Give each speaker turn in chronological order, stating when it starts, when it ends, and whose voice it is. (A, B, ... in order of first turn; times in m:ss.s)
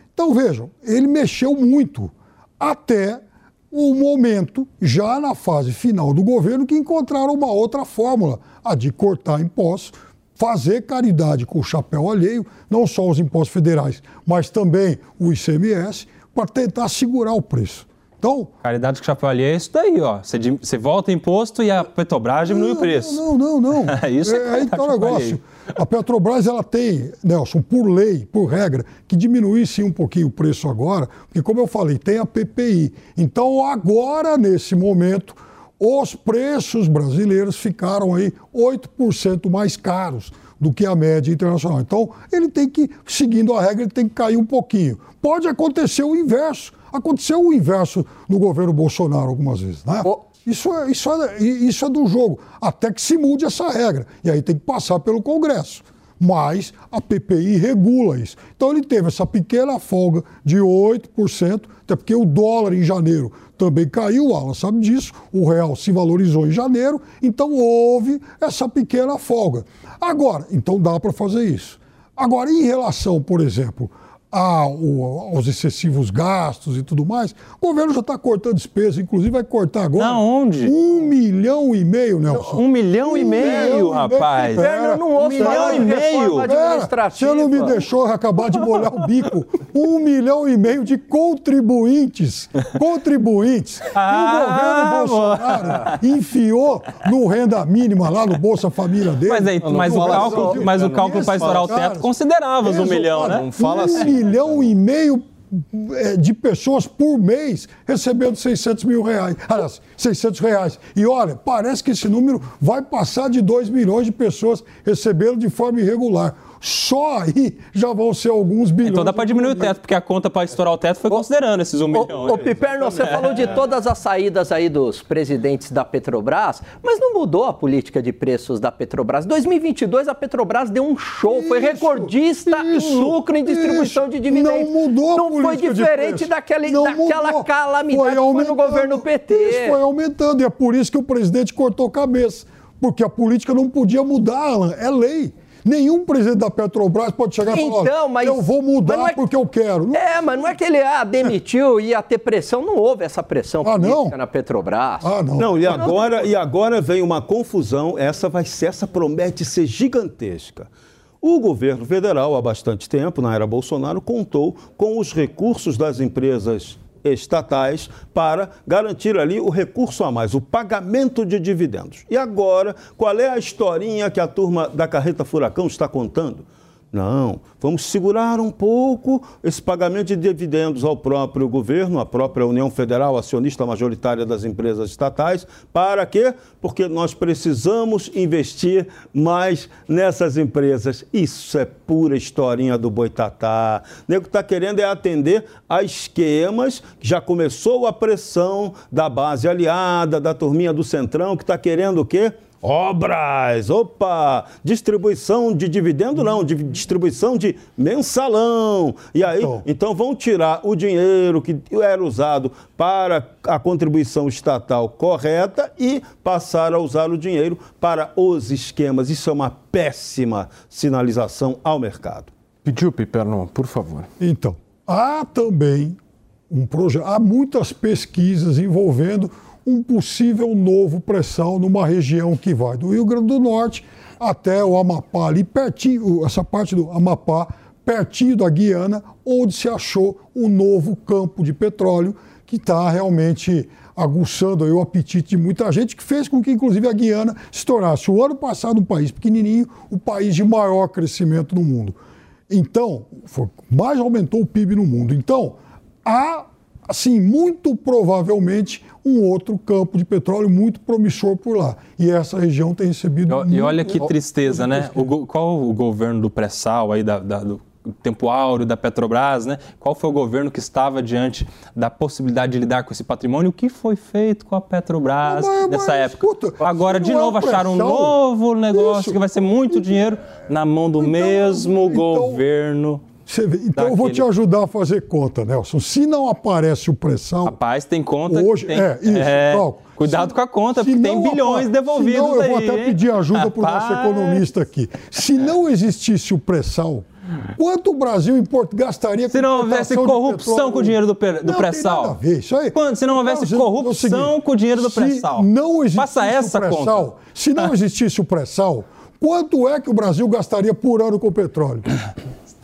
0:00.2-0:18.5 A
0:18.6-0:23.2 B
0:22.4-1:42.1 A
0:23.8-0:25.4 B
1:20.0-1:20.7 B
1:22.4-1:24.7 B
1:23.4-1:23.7 C
1:24.6-1:27.8 C
1:25.3-1:26.5 B
1:33.9-1:36.0 B
1:39.3-1:43.5 B
1:39.6-1:41.8 D
1:42.6-1:59.8 A
1:42.6-1:44.7 D
1:58.8-2:03.5 B
2:01.9-2:19.8 C
2:11.2-2:30.4 A
2:27.5-2:29.2 C
2:29.9-2:35.1 C
2:33.6-2:34.2 A
2:35.0-2:35.9 A
2:35.4-2:40.7 E
2:35.7-2:36.2 C
2:41.2-3:42.3 E
3:29.4-3:29.6 A
3:42.6-3:44.1 D
3:44.2-3:46.0 A
3:46.5-4:12.0 A
4:12.5-4:25.1 A
4:23.3-4:43.0 B
4:35.2-4:38.2 A
4:38.7-4:39.9 A
4:41.0-4:42.4 A
4:43.3-4:47.6 A
4:43.8-4:44.3 B
4:47.4-4:54.4 B
4:48.3-5:11.9 A
4:59.3-5:02.2 B
5:02.7-5:07.1 B